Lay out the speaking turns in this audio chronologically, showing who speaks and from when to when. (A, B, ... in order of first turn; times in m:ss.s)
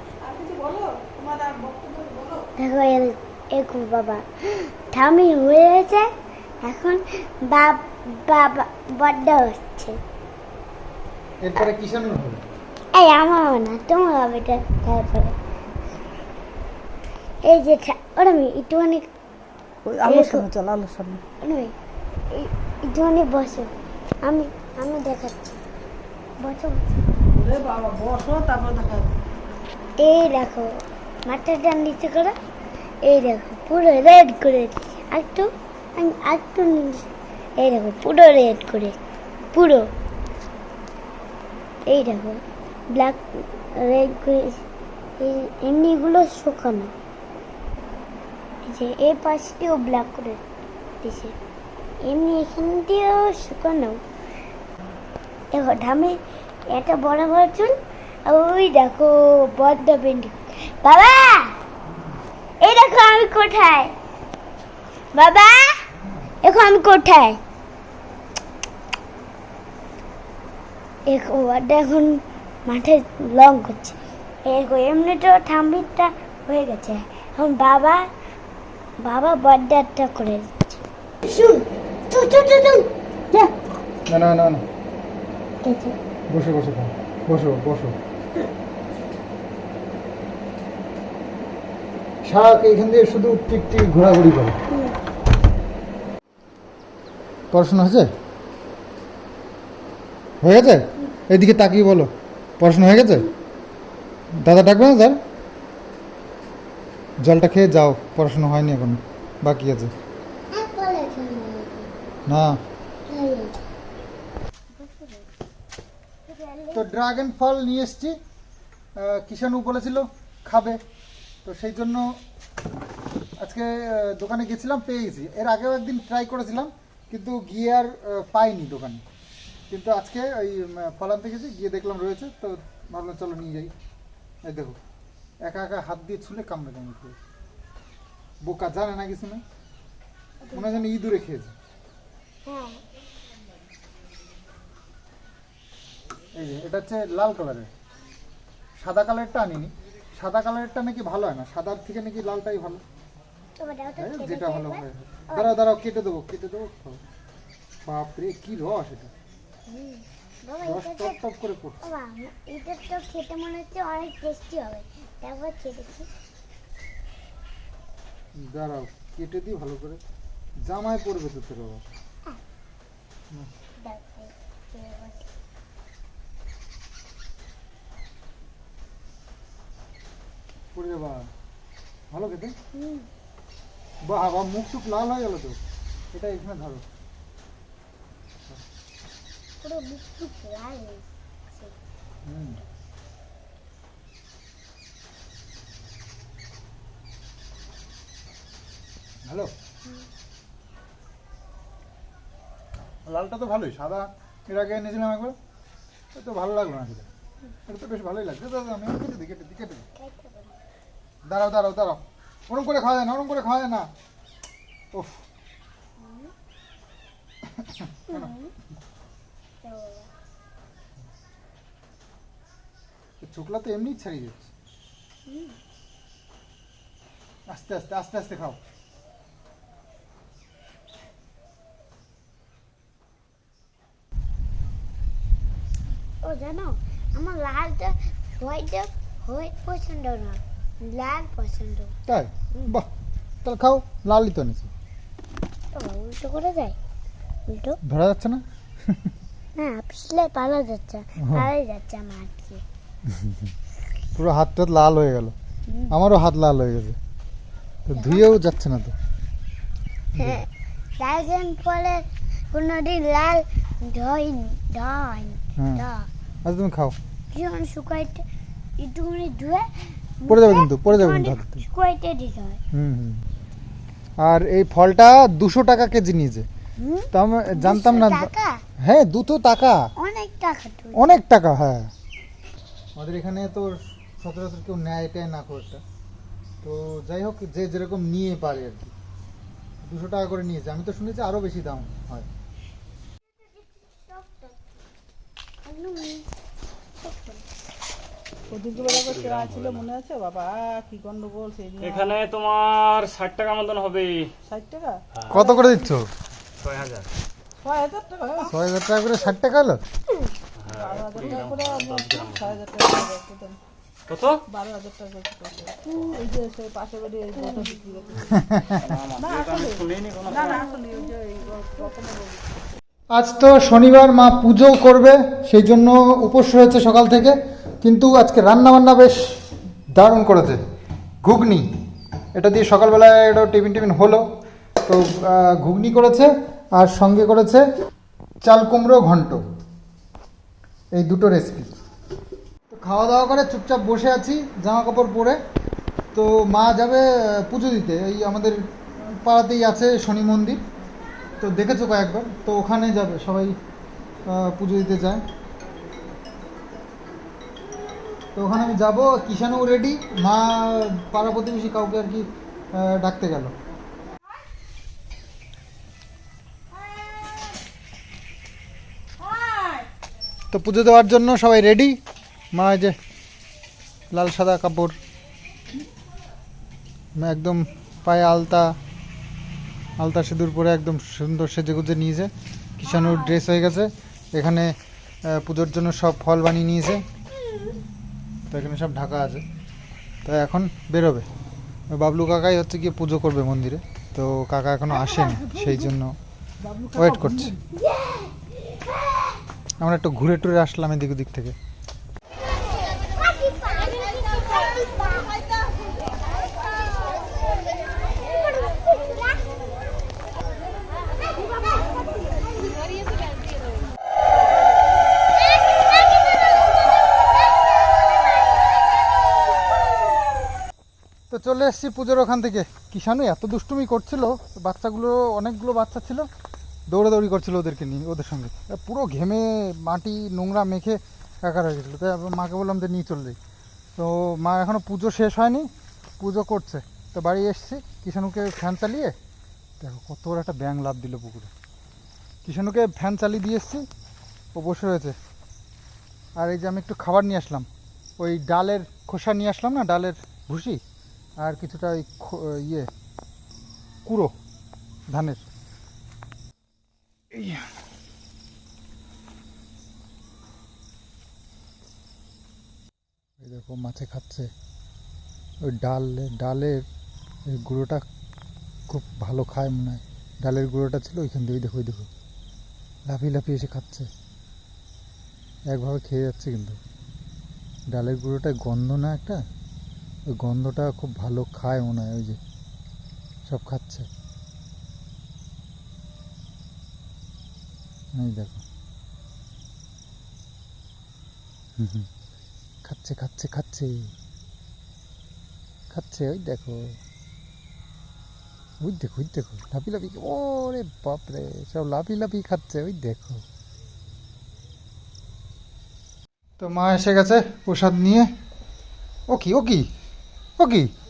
0:00.2-0:02.5 A
0:02.6-0:06.1 B
0:06.6-0:10.0 B
0:11.4-0:12.4 C
0:12.9-0:15.3 B
0:17.4-0:19.1 B
0:19.8-0:21.2 A
0:20.0-0:20.5 B
0:21.4-0:21.7 B
0:22.3-0:25.6 B
0:26.4-0:27.0 B
0:27.3-0:29.2 A
0:30.0-0:30.7 B
0:31.2-0:32.4 B
0:33.0-0:39.0 B
0:39.5-0:39.9 B
0:41.9-0:44.6 B
0:45.2-0:46.9 B
0:48.6-0:50.4 B
0:51.0-0:51.3 B
0:52.0-0:54.0 B
0:55.5-1:01.6 B
1:02.6-1:03.9 B
1:05.1-1:05.9 B
1:06.0-1:06.3 C
1:06.4-1:07.4 B
1:11.1-1:18.1 B
1:19.0-1:23.5 B
1:24.1-1:24.6 C
1:25.6-1:26.0 B
1:26.3-1:28.0 C
1:32.2-1:34.6 C
1:34.7-1:35.0 B
1:37.5-1:38.1 C
1:40.4-1:43.3 C
1:44.3-1:45.2 C
1:47.2-1:49.9 C
1:50.5-1:51.9 B
1:52.3-1:52.6 C
1:53.1-1:53.6 B
1:54.7-1:55.3 B
1:56.2-1:56.9 B
1:56.7-1:58.2 C
1:59.0-2:00.8 C
2:01.4-2:02.2 C
2:03.4-2:09.0 C
2:09.7-2:13.7 C
2:14.4-2:14.8 C
2:15.4-2:17.2 C
2:18.4-2:19.4 C
2:20.4-2:20.8 B
2:20.5-2:21.5 C
2:22.4-2:22.8 B
2:26.4-2:27.7 C
2:28.8-2:32.8 C
2:33.6-2:35.6 B
2:34.0-2:37.0 C
2:37.8-2:39.1 C
2:39.7-2:41.2 B
2:40.6-2:41.8 C
2:41.8-2:46.1 B
2:48.4-2:50.0 C
2:50.6-2:51.8 C
2:53.8-2:55.3 B
3:00.7-3:01.2 C
3:02.1-3:02.5 C
3:02.7-3:03.1 B
3:04.1-3:05.6 C
3:06.1-3:06.8 C
3:09.6-3:11.8 B
3:12.2-3:12.6 C
3:19.2-3:19.5 C
3:23.0-3:25.4 C
3:26.1-3:27.1 C
3:27.7-3:29.8 C
3:30.0-3:30.6 B
3:31.2-3:33.9 C
3:34.9-3:35.2 C
3:36.0-3:36.3 B
3:37.5-3:38.3 C
3:38.1-3:38.5 B
3:39.6-3:40.1 B
3:43.2-3:44.5 C
3:45.3-3:45.6 B
3:47.5-3:48.6 C
3:56.2-4:01.9 B
4:02.0-4:02.9 C
4:03.4-4:04.7 C
4:05.7-4:06.8 B
4:07.5-4:07.8 B
4:07.8-4:09.1 C
4:09.6-4:12.6 B
4:11.2-4:11.5 C
4:13.1-4:13.5 C
4:14.1-4:15.3 C
4:15.9-4:17.0 C
4:17.9-4:18.9 C
4:18.0-4:18.3 B
4:20.1-4:20.4 C
4:20.2-4:20.5 B
4:21.0-4:26.1 B
4:25.6-4:25.8 C
4:26.4-4:26.9 C
4:27.3-4:28.2 B
4:28.8-4:32.6 B
4:30.3-4:31.7 C
4:32.7-4:33.2 C
4:34.2-4:36.4 C
4:36.8-4:38.6 B
4:37.1-4:39.9 C
4:40.0-4:41.2 B
4:40.9-4:41.9 C
4:43.0-4:45.8 C
4:46.6-4:48.9 C
4:49.8-4:52.3 C
4:53.4-4:54.5 B
4:55.6-4:56.2 B
4:57.0-4:57.4 B
4:58.5-5:02.2 A
4:58.7-4:59.9 D
5:01.8-5:04.3 D
5:04.4-5:05.9 A
5:05.3-5:06.1 C
5:06.6-5:07.1 D
5:07.6-5:08.5 A
5:08.4-5:09.8 C
5:10.6-5:12.6 D
5:10.7-5:13.6 A
5:14.1-5:14.4 D
5:14.5-5:18.4 A
5:18.3-5:18.8 C
5:18.8-5:20.6 D
5:19.2-5:22.5 A
5:23.1-5:29.2 C
5:29.9-5:30.6 C
5:31.2-5:31.7 C
5:32.3-5:34.2 C
5:34.8-5:37.6 C
5:38.4-5:39.4 C
5:40.9-5:41.7 C
5:42.7-5:45.4 C
5:46.1-5:50.6 C
5:51.4-5:53.5 C
5:54.2-5:55.2 C
5:58.3-6:03.5 C
6:06.8-6:07.6 A
6:09.2-6:09.8 A
6:10.5-6:12.0 C
6:12.5-6:12.9 C
6:14.1-6:14.9 C
6:17.2-6:18.7 C
6:20.0-6:24.7 C
6:22.9-6:23.4 A
6:25.2-6:27.0 C
6:27.4-6:27.7 A
6:28.5-6:29.4 C
6:30.2-6:31.2 C
6:31.9-6:36.1 C
6:34.9-6:35.9 A
6:36.6-6:37.7 A
6:36.9-6:37.5 C
6:37.8-6:39.4 B
6:39.8-6:41.5 C
6:43.2-6:45.3 B
6:48.2-6:49.4 B
6:51.5-6:52.3 A
7:01.3-7:06.3 C
7:06.9-7:13.4 C
7:14.0-7:15.7 C
7:16.2-7:19.1 C
7:19.8-7:21.5 C
7:22.4-7:23.8 C
7:24.5-7:25.2 C
7:26.4-7:27.7 C
7:28.2-7:30.8 C
7:31.4-7:32.9 C
7:34.0-7:34.3 C
7:35.1-7:35.4 C
7:37.3-7:37.7 C
7:43.4-7:44.5 C
7:45.6-7:46.8 C
7:47.5-7:48.0 C
7:48.9-7:52.1 C
7:53.1-7:54.1 C
7:55.7-7:56.8 C
7:57.9-7:59.4 C
8:00.4-8:02.4 C
8:03.4-8:04.1 C
8:08.1-8:08.6 C
8:11.8-8:12.1 C
8:12.8-8:14.1 C
8:15.9-8:17.0 C
8:18.8-8:23.4 C
8:26.6-8:28.3 C
8:29.3-8:29.8 C
8:30.6-8:30.9 C